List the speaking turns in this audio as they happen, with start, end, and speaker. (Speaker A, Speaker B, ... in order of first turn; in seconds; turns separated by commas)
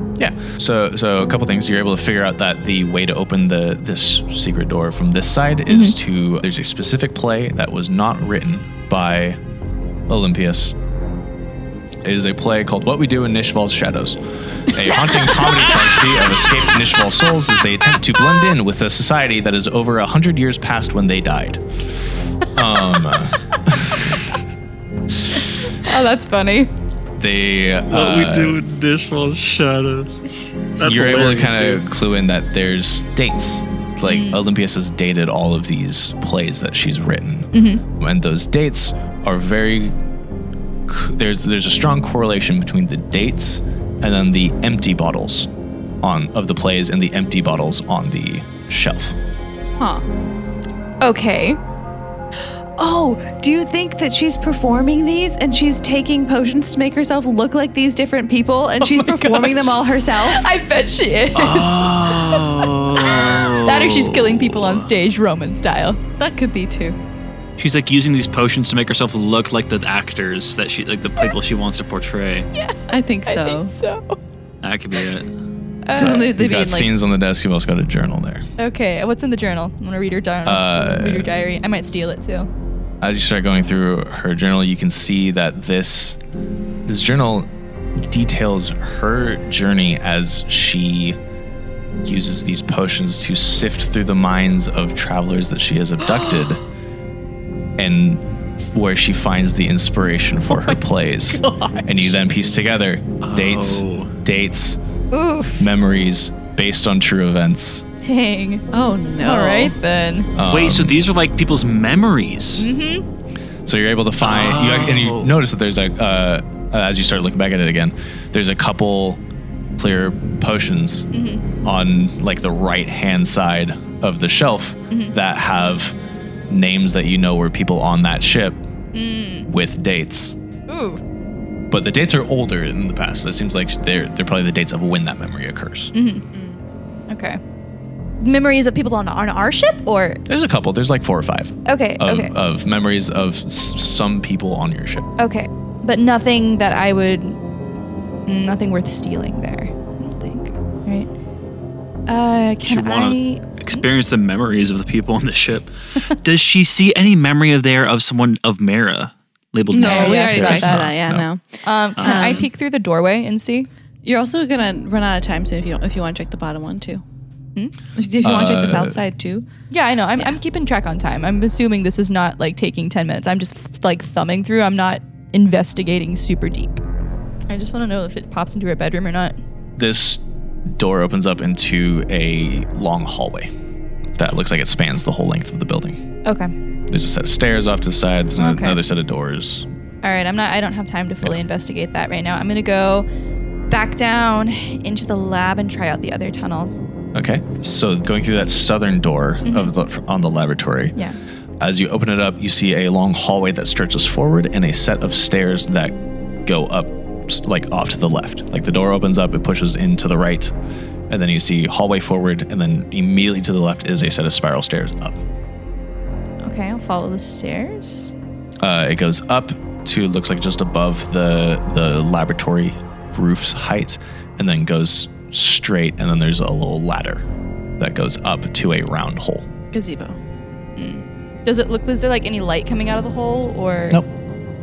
Speaker A: 0.2-9.4, Speaker B: 5.7-6.0, Speaker A: 10.1-10.7, Speaker A: 12.0-21.6, Speaker A: 22.5-24.2, Speaker B: 25.7-26.7, Speaker A: 27.2-28.6, Speaker C: 27.9-30.2, Speaker C: 30.8-31.9, Speaker A: 30.8-40.0, Speaker B: 34.0-34.4, Speaker B: 37.5-37.8, Speaker A: 40.9-45.5, Speaker A: 46.0-49.1, Speaker D: 49.8-50.0, Speaker B: 51.0-51.6, Speaker D: 52.8-60.5, Speaker B: 58.8-66.0, Speaker C: 61.3-64.8, Speaker D: 66.2-67.0, Speaker C: 67.6-72.5, Speaker B: 72.5-74.2, Speaker D: 72.9-73.7, Speaker C: 74.6-75.3, Speaker B: 75.9-76.3, Speaker D: 75.9-76.9, Speaker A: 75.9-78.5, Speaker B: 78.6-82.5, Speaker A: 80.4-81.3, Speaker A: 83.0-86.2, Speaker A: 86.8-91.2, Speaker A: 92.0-96.6, Speaker A: 97.8-104.8, Speaker B: 100.5-102.2, Speaker C: 103.2-104.1, Speaker B: 105.1-105.7, Speaker A: 105.6-107.8, Speaker B: 108.0-108.6, Speaker D: 108.7-109.8, Speaker B: 109.2-110.3, Speaker A: 110.3-111.0, Speaker C: 110.5-112.7, Speaker B: 112.6-113.0, Speaker A: 113.7-119.2, Speaker C: 114.2-115.3, Speaker A: 119.8-121.1, Speaker B: 121.1-121.5, Speaker A: 121.6-126.0, Speaker B: 124.9-125.1, Speaker A: 126.5-128.6, Speaker B: 128.9-129.5, Speaker A: 129.5-130.3, Speaker B: 130.7-131.0, Speaker A: 131.7-135.9, Speaker B: 135.9-136.2, Speaker B: 137.1-137.4, Speaker B: 138.2-140.2, Speaker A: 140.3-145.1, Speaker B: 141.7-142.3, Speaker B: 145.2-147.4, Speaker B: 148.3-151.1, Speaker B: 152.1-153.8, Speaker C: 152.6-155.7, Speaker C: 156.2-160.8, Speaker D: 159.7-162.5, Speaker B: 159.7-160.8, Speaker A: 160.3-161.3, Speaker B: 161.6-163.7, Speaker C: 162.0-162.4, Speaker D: 164.0-167.0, Speaker D: 167.9-169.4, Speaker A: 168.2-169.0, Speaker B: 169.7-176.8, Speaker B: 177.5-179.4, Speaker A: 179.8-183.5, Speaker A: 184.2-186.0, Speaker B: 186.2-186.5, Speaker A: 186.9-189.7, Speaker B: 188.4-188.8, Speaker B: 190.0-193.1, Speaker B: 193.7-196.7, Speaker A: 197.1-200.9, Speaker B: 199.4-199.7, Speaker A: 201.6-210.5, Speaker A: 211.1-215.2, Speaker B: 216.4-218.1, Speaker A: 218.6-227.2, Speaker A: 227.8-229.5, Speaker D: 229.7-230.2, Speaker B: 230.8-234.0